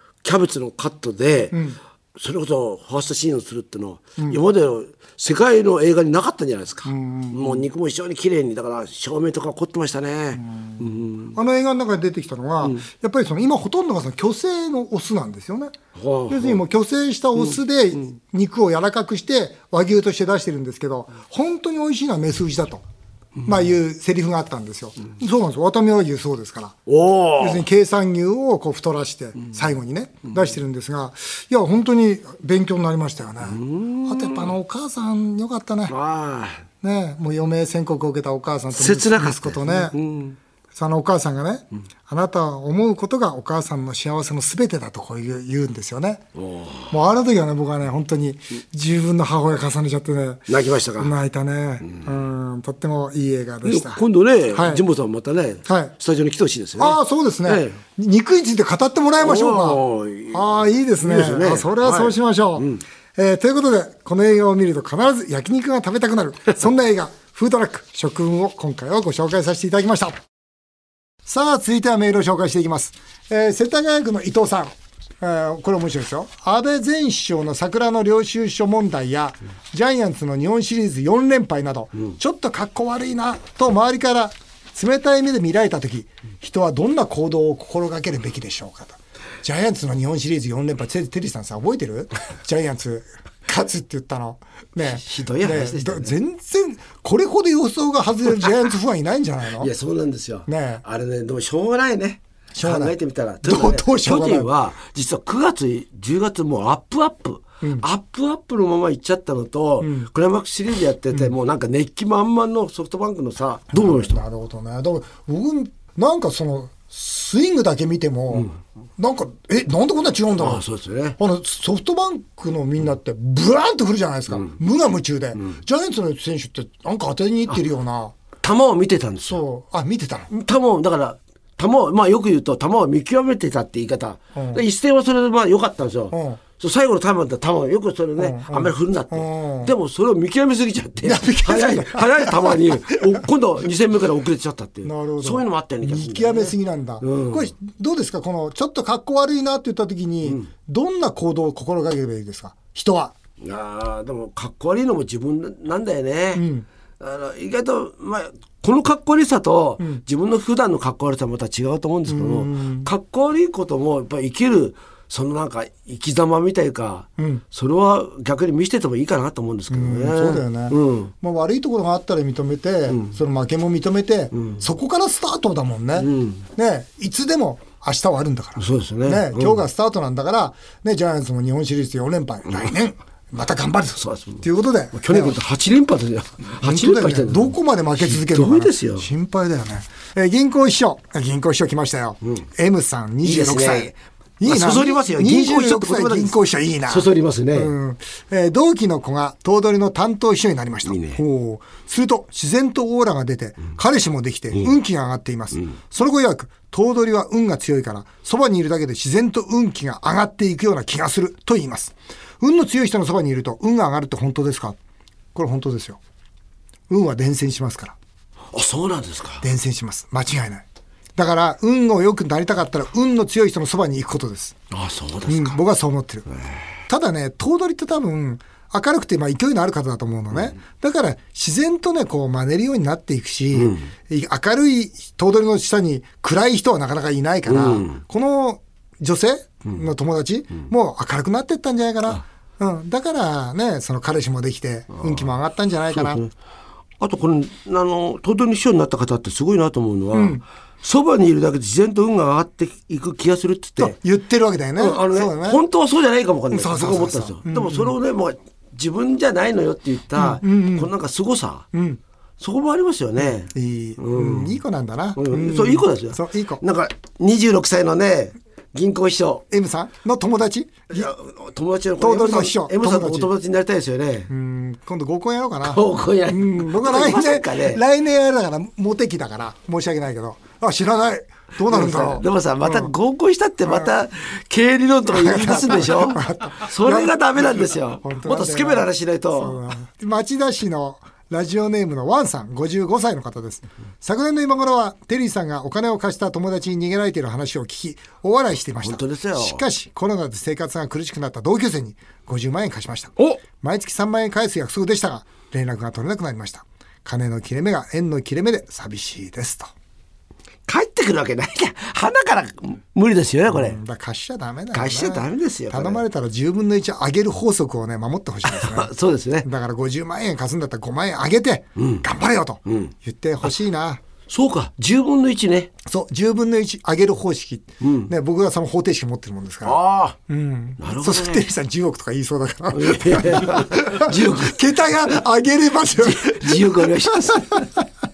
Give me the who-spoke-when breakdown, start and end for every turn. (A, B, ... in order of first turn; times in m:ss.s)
0:00.2-0:01.6 A
0:01.5-0:01.8 B
0:02.2-0:11.4 A
0:06.8-0:07.6 B
0:10.4-0:15.7 B
0:16.0-0:16.6 A
0:16.3-0:22.8 B
0:23.4-0:26.8 B
0:26.9-0:27.6 A
0:27.4-0:35.9 B
0:33.4-0:34.5 A
0:35.9-0:36.6 A
0:36.8-0:40.0 B
0:38.7-0:40.4 A
0:40.8-0:46.2 B
0:46.4-0:46.9 A
0:46.9-0:50.5 B
0:50.5-0:51.1 A
0:51.0-0:54.0 B
0:53.6-0:57.8 A
0:54.5-0:54.8 B
0:55.6-0:55.9 B
0:56.8-1:10.2 B
0:59.2-1:02.8 A
1:11.2-1:39.7 B
1:34.9-1:36.1 A
1:39.6-1:54.2 A
1:40.5-1:40.8 B
1:42.5-1:42.9 B
1:43.4-1:44.5 B
1:49.8-1:50.1 B
1:53.7-2:00.6 B
2:00.4-2:01.2 A
2:01.2-2:08.1 B
2:08.4-2:09.4 A
2:09.3-2:10.3 B
2:10.3-2:27.5 A
2:14.3-2:14.6 B
2:16.1-2:16.4 B
2:18.2-2:19.7 B
2:21.0-2:23.0 B
2:24.8-2:33.1 B
2:33.4-2:36.4 A
2:36.3-2:36.6 B
2:37.0-2:51.1 A
2:42.1-2:42.9 B
2:47.2-2:47.4 B
2:49.7-3:05.4 B
2:52.9-2:53.1 A
2:54.3-2:54.6 A
2:56.0-2:56.4 A
2:58.6-2:59.6 A
3:04.0-3:09.1 A
3:06.6-3:34.8 B
3:13.2-3:16.4 A
3:16.9-3:17.7 A
3:20.8-3:21.2 A
3:35.3-3:36.0 B
3:36.9-3:38.0 B
3:38.5-3:39.4 A
3:39.4-3:40.6 B
3:41.2-3:44.6 B
3:44.7-3:45.6 A
3:45.3-3:46.3 B
3:46.3-3:46.6 A
3:46.9-4:06.2 B
3:53.5-3:53.9 A
3:57.4-3:58.0 A
4:05.0-4:05.3 A
4:05.9-4:06.3 A
4:07.0-4:14.0 A
4:10.1-4:10.4 B
4:13.8-4:15.6 B
4:14.8-4:21.7 A
4:16.5-4:17.9 B
4:20.2-4:20.9 B
4:21.7-4:22.0 B
4:22.4-4:24.6 A
4:23.2-4:26.6 B
4:25.2-4:29.4 A
4:29.5-4:31.1 B
4:30.9-4:34.3 A
4:32.0-4:33.3 B
4:34.3-4:42.9 B
4:35.6-4:37.8 A
4:41.7-4:49.6 A
4:43.6-4:43.9 B
4:45.1-5:09.7 B
4:58.8-4:59.6 A
5:10.7-5:13.8 A
5:13.5-5:18.9 B
5:14.7-5:16.0 A
5:18.4-5:19.5 A
5:19.4-5:24.0 B
5:21.8-5:22.0 A
5:22.6-5:22.9 A
5:24.3-5:25.7 A
5:25.8-5:37.8 B
5:27.8-5:28.1 A
5:29.6-5:30.2 A
5:30.8-5:31.5 A
5:32.7-5:34.6 A
5:36.0-5:37.7 A